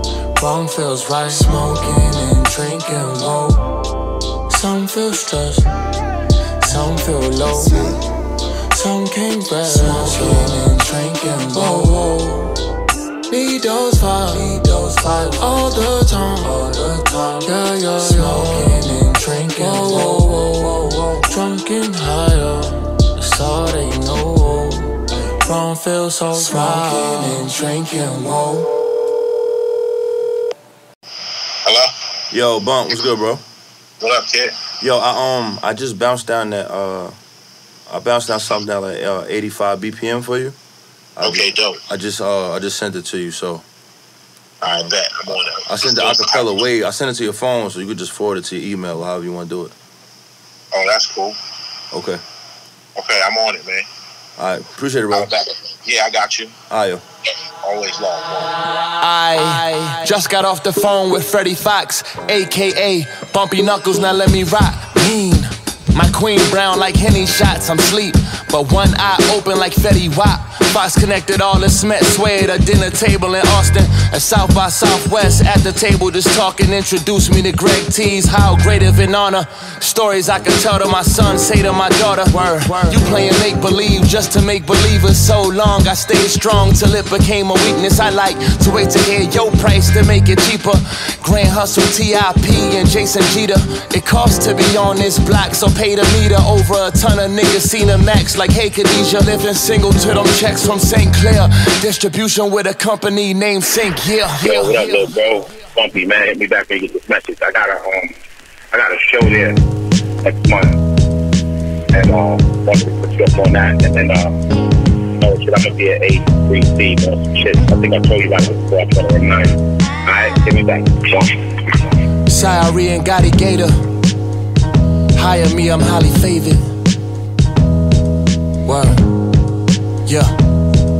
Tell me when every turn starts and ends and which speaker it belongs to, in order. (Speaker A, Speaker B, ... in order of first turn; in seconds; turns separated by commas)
Speaker A: 0.4-3.6, Speaker A: 4.5-5.6, Speaker A: 6.6-7.9, Speaker A: 8.8-12.2, Speaker A: 13.3-16.8, Speaker A: 17.4-24.7, Speaker A: 25.4-28.6, Speaker B: 32.3-33.4, Speaker C: 34.0-34.5, Speaker B: 34.8-37.1, Speaker B: 37.9-40.5, Speaker B: 41.2-43.6, Speaker C: 41.3-41.7, Speaker C: 44.9-45.5, Speaker B: 45.6-49.7, Speaker C: 50.8-51.2, Speaker B: 51.9-52.2, Speaker C: 53.1-53.8, Speaker B: 54.4-55.3, Speaker C: 55.2-56.5, Speaker B: 56.7-57.0, Speaker C: 57.6-58.4, Speaker A: 59.0-105.1, Speaker D: 104.4-108.1, Speaker D: 108.7-109.5, Speaker D: 110.2-110.8, Speaker D: 111.9-114.3, Speaker D: 115.2-121.3, Speaker A: 122.3-123.8, Speaker A: 125.2-126.7, Speaker A: 128.6-129.0, Speaker A: 130.1-130.3